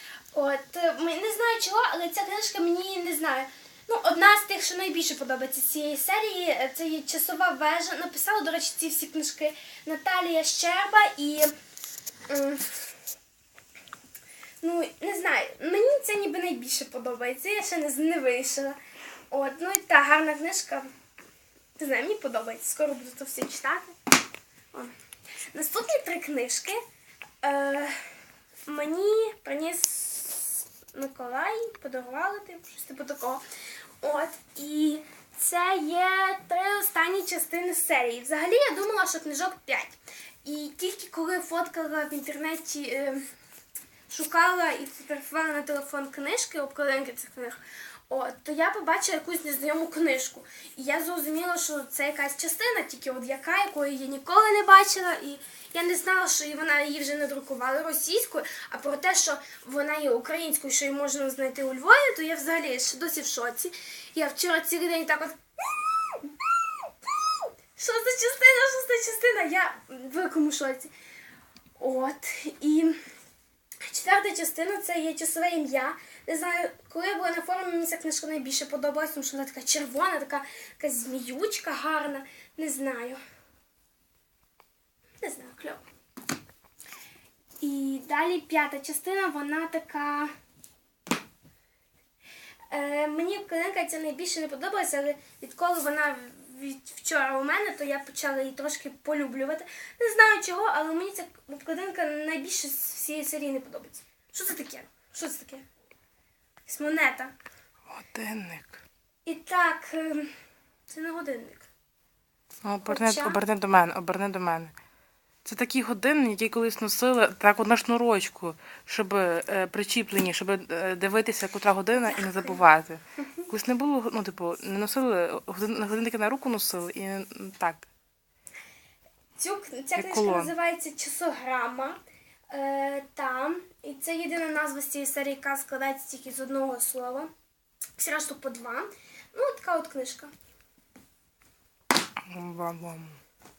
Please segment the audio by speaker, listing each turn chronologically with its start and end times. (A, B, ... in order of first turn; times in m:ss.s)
0:00.3-0:11.5 A
0:12.3-0:12.8 A
0:14.6-0:18.8 A
0:19.3-0:20.9 A
0:21.8-0:23.9 A
0:25.5-0:26.8 A
0:27.4-0:28.0 A
0:28.7-0:33.4 A
0:34.0-0:43.2 A
0:44.1-1:05.4 A
1:06.1-1:06.4 A
1:07.8-1:10.9 A
1:11.8-1:13.0 A
1:13.8-1:23.2 A
1:25.2-1:25.8 A
1:27.6-1:30.3 A
1:32.7-1:45.6 A
1:46.7-1:47.3 A
1:47.9-1:48.8 B
1:49.3-1:50.3 A
1:50.9-1:51.7 A
1:52.6-1:54.8 B
1:52.9-1:53.4 A
1:55.4-2:07.9 B
2:02.1-2:02.6 A
2:03.2-2:03.5 A
2:09.4-2:12.0 A
2:10.0-2:10.5 B
2:12.5-2:17.3 A
2:18.0-2:20.3 A
2:22.3-2:23.2 B